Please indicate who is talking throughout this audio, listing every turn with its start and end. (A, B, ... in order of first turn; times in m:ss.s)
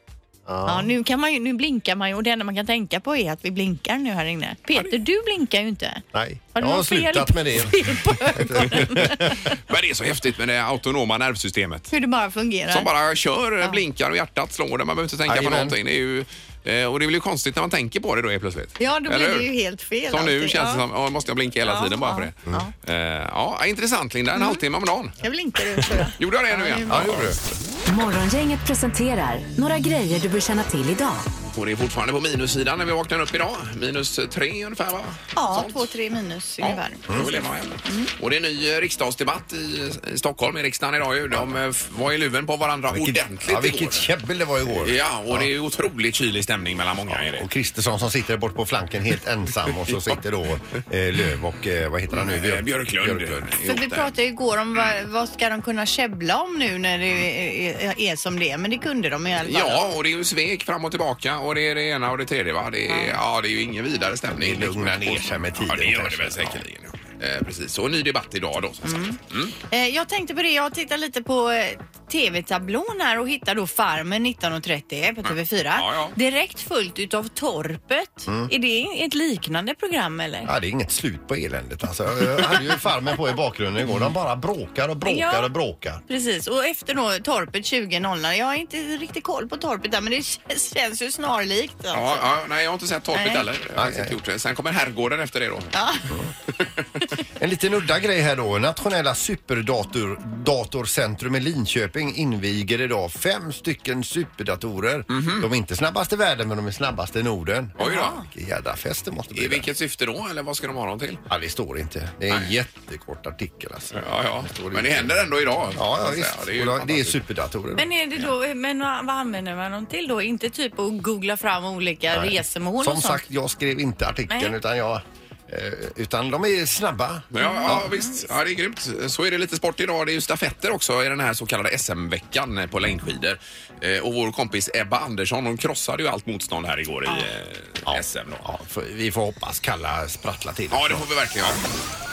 0:00.5-0:00.9 A
0:00.7-0:06.0 B
0:06.1-0:09.5 A
0:06.6-0:09.3 B
0:09.6-0:11.9 C
0:11.9-0:12.9 B
0:12.7-0:19.5 C
0:15.3-0:15.8 A
0:18.8-0:20.8 B
0:20.1-0:25.2 C
0:21.6-0:22.7 B
0:24.4-0:24.6 B
0:25.2-0:27.2 B
0:26.2-0:27.5 C
0:26.9-0:27.4 A
0:27.9-0:31.3 D
0:31.5-0:35.9 C
0:35.4-0:37.2 B
0:36.6-0:44.1 C
0:37.9-0:38.1 B
0:41.3-0:41.6 A
0:42.9-0:45.5 A
0:44.7-0:47.5 C
0:47.1-0:53.5 A
0:52.1-0:54.1 C
0:53.6-0:59.8 B
0:59.4-1:09.6 C
1:02.9-1:03.2 B
1:04.4-1:06.6 A
1:08.8-1:09.2 B
1:09.7-1:20.5 B
1:15.3-1:16.2 C
1:20.4-1:26.0 A
1:25.0-1:25.5 B
1:26.1-1:32.3 B
1:31.9-1:35.7 C
1:33.1-1:33.4 B
1:33.8-1:34.1 A
1:35.7-1:36.1 B
1:37.4-1:49.7 A
1:45.1-1:45.5 C
1:47.8-1:48.2 C
1:47.8-1:48.3 B
1:49.3-1:51.2 C
1:51.3-1:55.2 A
1:53.9-1:57.2 C
1:55.7-1:57.9 A
1:57.8-2:03.2 B
2:02.1-2:07.9 A
2:04.3-2:04.5 B
2:07.3-2:18.4 C
2:07.4-2:08.3 B
2:17.9-2:21.6 A
2:20.7-2:21.6 C